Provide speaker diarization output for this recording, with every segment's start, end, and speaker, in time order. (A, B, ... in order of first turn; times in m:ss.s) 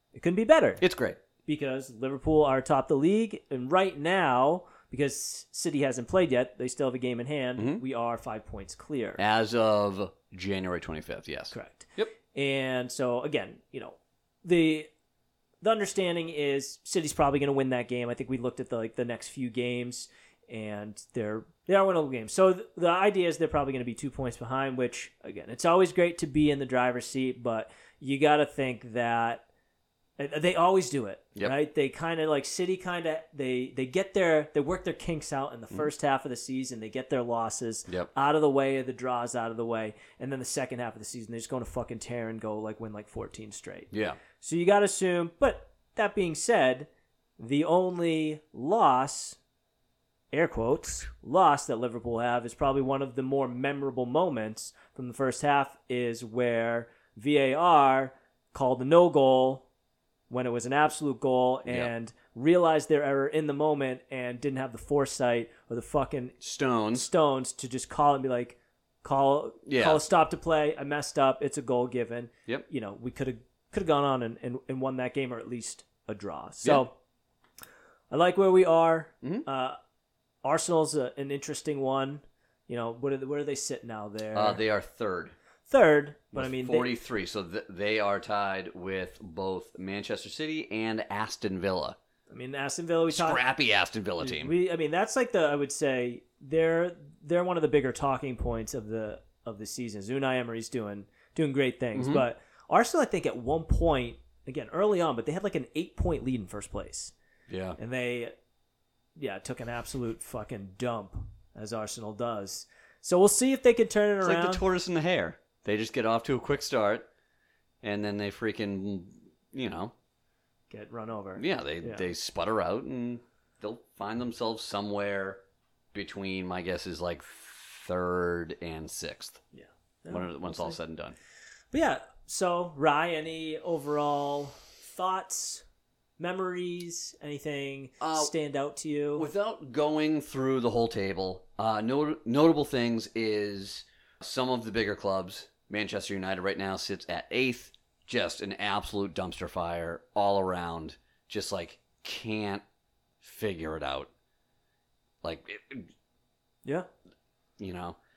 0:00.1-0:00.8 A
0:00.8-0:01.2 B
0:01.4-0:09.2 A
0:07.6-0:07.8 B
0:09.2-0:12.1 B
0:11.5-0:14.9 A
0:15.6-0:29.4 A
0:30.2-0:46.9 A
0:43.9-0:44.2 B
0:47.4-0:49.4 A
0:50.3-0:59.6 A
1:00.3-1:06.4 A
1:06.4-1:07.1 B
1:06.9-1:16.9 A
1:09.6-1:10.0 B
1:18.1-1:19.8 A
1:20.4-1:24.6 A
1:24.3-1:25.3 B
1:25.7-1:26.9 A
1:26.3-1:32.0 B
1:32.3-1:33.4 A
1:33.1-1:34.5 B
1:34.2-1:47.1 A
1:41.9-1:42.2 B
1:47.5-1:47.8 B
1:47.8-1:48.3 A
1:49.2-1:54.6 A
1:54.2-1:57.1 B
1:57.8-1:59.9 B
2:00.7-2:02.1 A
2:01.4-2:05.4 B
2:05.9-2:09.4 B
2:09.5-2:10.8 A
2:10.1-2:11.2 B
2:11.7-2:15.6 A
2:16.2-2:19.3 A
2:18.0-2:18.3 B
2:19.2-2:32.6 B
2:33.2-2:34.1 B
2:35.2-2:35.9 B
2:37.6-2:38.0 B